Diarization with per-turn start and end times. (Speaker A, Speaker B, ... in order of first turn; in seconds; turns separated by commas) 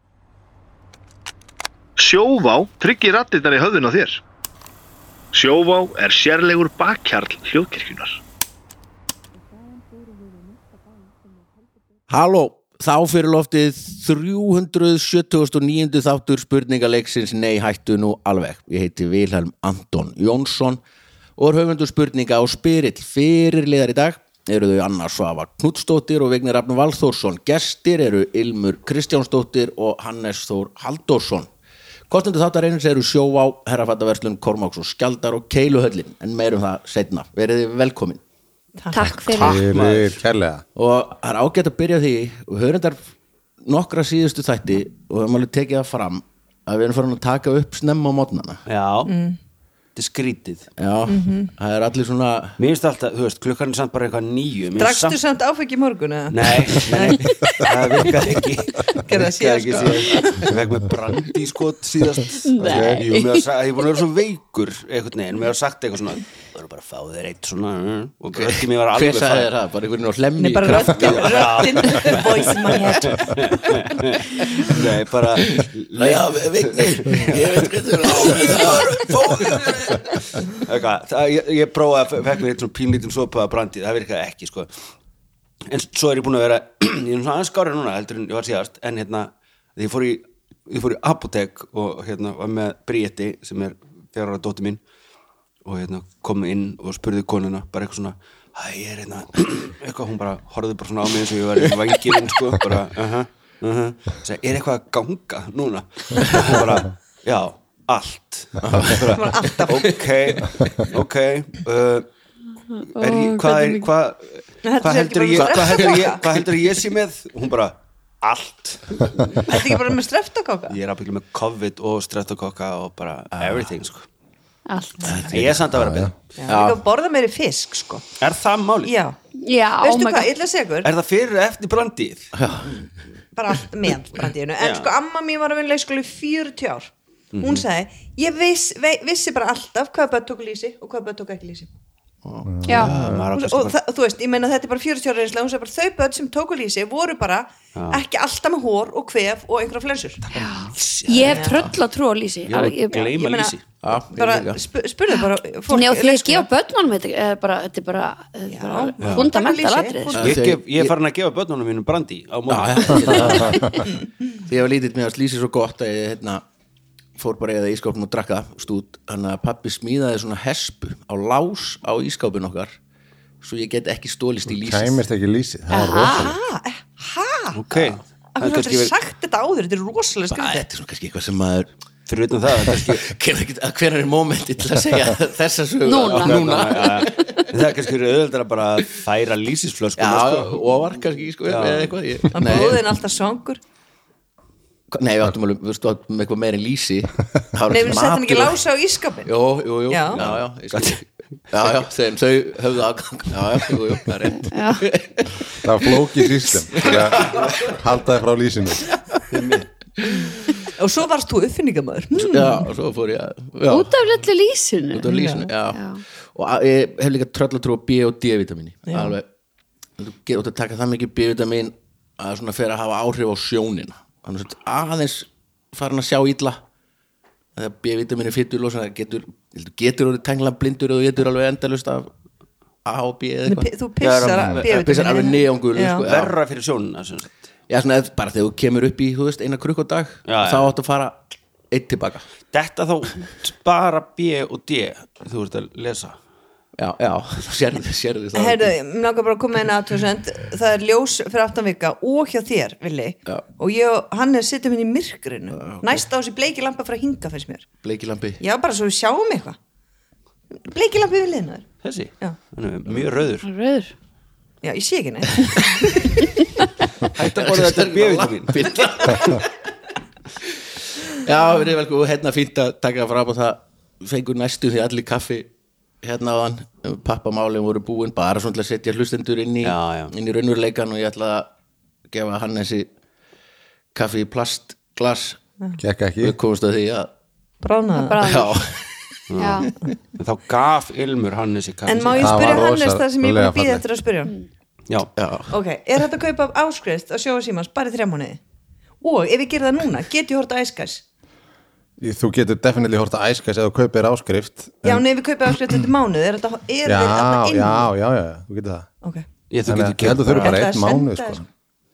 Speaker A: 2.0-4.2, Speaker A: 5.3-8.2, Speaker B: 12.1-20.8, Speaker B: 21.4-31.5, Speaker B: 32.1-38.2, Speaker C: 38.8-39.2, Speaker D: 38.9-39.7, Speaker E: 39.3-40.2, Speaker F: 39.3-40.6, Speaker B: 40.7-43.0, Speaker B: 43.6-48.6, Speaker E: 48.6-49.1, Speaker C: 49.0-49.4, Speaker E: 50.0-50.7, Speaker B: 50.8-52.6, Speaker C: 51.1-51.5, Speaker E: 52.6-55.2, Speaker C: 54.8-56.7, Speaker E: 56.3-69.5, Speaker D: 56.9-57.2, Speaker F: 57.2-58.1, Speaker C: 58.9-60.5, Speaker D: 62.4-64.0, Speaker F: 62.6-63.0, Speaker B: 68.3-72.7, Speaker C: 70.4-73.7, Speaker E: 70.8-72.3, Speaker E: 73.0-84.7, Speaker B: 75.4-79.5, Speaker E: 85.7-94.8, Speaker E: 95.6-112.1, Speaker B: 106.3-106.6, Speaker B: 108.6-110.7, Speaker C: 109.1-109.9, Speaker D: 112.7-113.9, Speaker E: 113.0-119.4, Speaker C: 114.6-116.2, Speaker B: 115.5-116.0, Speaker C: 119.5-120.8, Speaker E: 120.7-124.0, Speaker B: 123.3-123.7, Speaker D: 124.7-125.2, Speaker B: 125.0-125.7, Speaker E: 125.3-126.1, Speaker F: 125.7-126.1, Speaker C: 126.3-128.1, Speaker B: 126.5-126.8, Speaker E: 128.2-128.9, Speaker C: 128.8-129.2, Speaker D: 129.4-130.3, Speaker C: 129.8-130.9, Speaker E: 130.8-132.3, Speaker B: 132.3-132.9, Speaker C: 133.3-141.7, Speaker E: 134.6-134.9, Speaker E: 137.3-137.6, Speaker B: 142.2-143.2, Speaker F: 142.5-143.2, Speaker D: 142.7-142.9, Speaker E: 142.8-143.7, Speaker C: 143.3-150.2, Speaker E: 147.7-148.0, Speaker E: 150.2-151.5, Speaker D: 150.3-153.1, Speaker B: 151.2-151.8, Speaker C: 151.3-151.6, Speaker E: 152.5-153.6, Speaker C: 153.0-156.5, Speaker B: 153.8-154.6, Speaker D: 155.1-160.3, Speaker C: 158.5-160.4, Speaker E: 159.0-159.3, Speaker B: 160.2-160.9, Speaker E: 160.2-163.6, Speaker B: 162.5-163.9, Speaker D: 163.3-163.8, Speaker F: 163.5-163.8, Speaker B: 164.4-166.4, Speaker B: 167.2-172.8, Speaker B: 173.4-175.0, Speaker F: 174.5-176.4, Speaker D: 175.7-176.3, Speaker C: 176.0-180.7, Speaker E: 177.5-178.9, Speaker B: 180.3-181.7, Speaker E: 182.1-183.1, Speaker B: 182.6-187.4, Speaker D: 185.8-187.5, Speaker E: 185.9-190.6, Speaker B: 190.0-192.8, Speaker E: 191.4-191.9, Speaker C: 192.3-193.6, Speaker B: 194.9-198.6, Speaker C: 197.7-199.3, Speaker B: 199.2-201.0, Speaker C: 199.9-200.2, Speaker E: 200.1-201.0, Speaker B: 201.5-207.7, Speaker D: 204.3-204.9, Speaker F: 205.6-208.9, Speaker E: 209.3-209.7, Speaker C: 210.2-212.7, Speaker B: 212.1-214.0, Speaker D: 213.7-216.0, Speaker B: 214.9-219.3, Speaker C: 215.1-215.4, Speaker C: 218.9-219.2, Speaker B: 220.0-226.6, Speaker B: 227.6-232.1, Speaker B: 232.8-233.7, Speaker C: 233.4-236.0, Speaker E: 234.0-234.9, Speaker F: 234.3-234.6, Speaker B: 234.6-236.3, Speaker E: 236.0-237.3, Speaker B: 237.7-242.2, Speaker E: 240.3-240.7, Speaker E: 242.5-246.2, Speaker B: 246.8-248.7, Speaker C: 248.3-257.7, Speaker B: 255.6-256.0, Speaker B: 257.8-258.4, Speaker C: 258.4-259.6, Speaker C: 260.6-261.6, Speaker E: 261.8-263.5, Speaker D: 263.4-263.9, Speaker C: 264.6-266.2, Speaker E: 267.1-269.4, Speaker B: 267.1-269.5, Speaker B: 271.1-275.5, Speaker B: 276.0-281.5, Speaker E: 279.6-280.1, Speaker B: 282.1-282.9, Speaker B: 283.9-285.4, Speaker F: 285.8-286.4, Speaker B: 286.2-287.1, Speaker C: 287.6-288.2, Speaker D: 288.0-288.6, Speaker B: 288.2-288.8, Speaker E: 289.3-289.7, Speaker D: 289.4-289.7, Speaker E: 290.2-292.6, Speaker C: 291.9-294.3, Speaker F: 292.2-293.8, Speaker B: 295.2-295.5, Speaker C: 295.5-298.4, Speaker C: 299.0-301.0, Speaker F: 302.0-305.8, Speaker C: 304.8-307.9, Speaker F: 306.9-308.9, Speaker E: 309.5-310.6, Speaker F: 309.6-311.4, Speaker C: 310.4-311.4